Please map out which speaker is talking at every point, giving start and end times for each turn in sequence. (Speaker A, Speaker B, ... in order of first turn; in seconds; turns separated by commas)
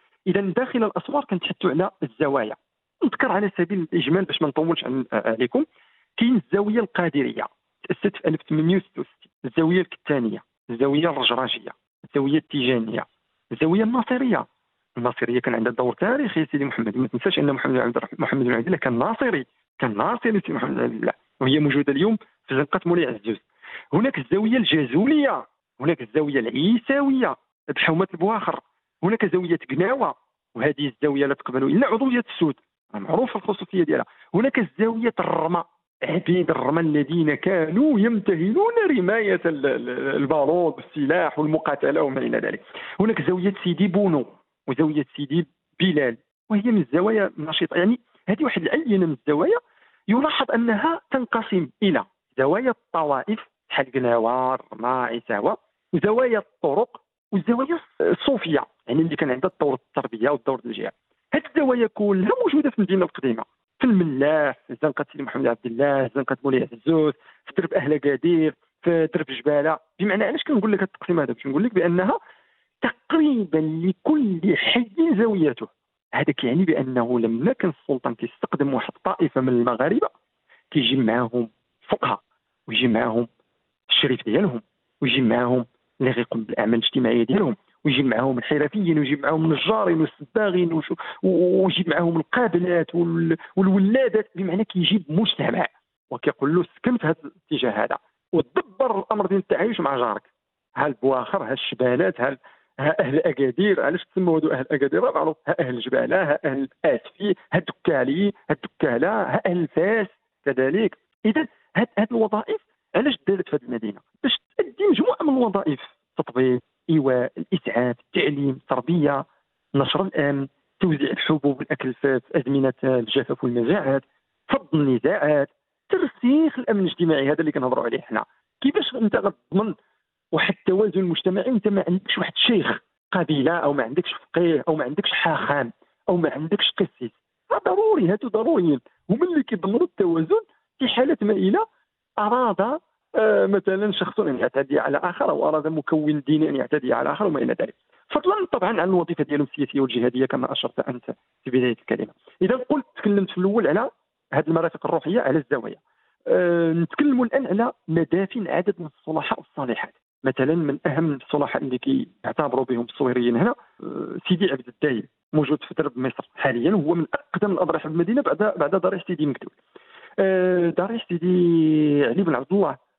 Speaker A: 0.3-5.6, Speaker A: 6.2-14.4, Speaker A: 15.0-72.2, Speaker A: 72.8-80.1, Speaker A: 80.7-83.3, Speaker A: 83.9-100.3, Speaker A: 100.8-129.8, Speaker A: 130.3-141.6, Speaker A: 142.2-169.5, Speaker A: 170.2-172.8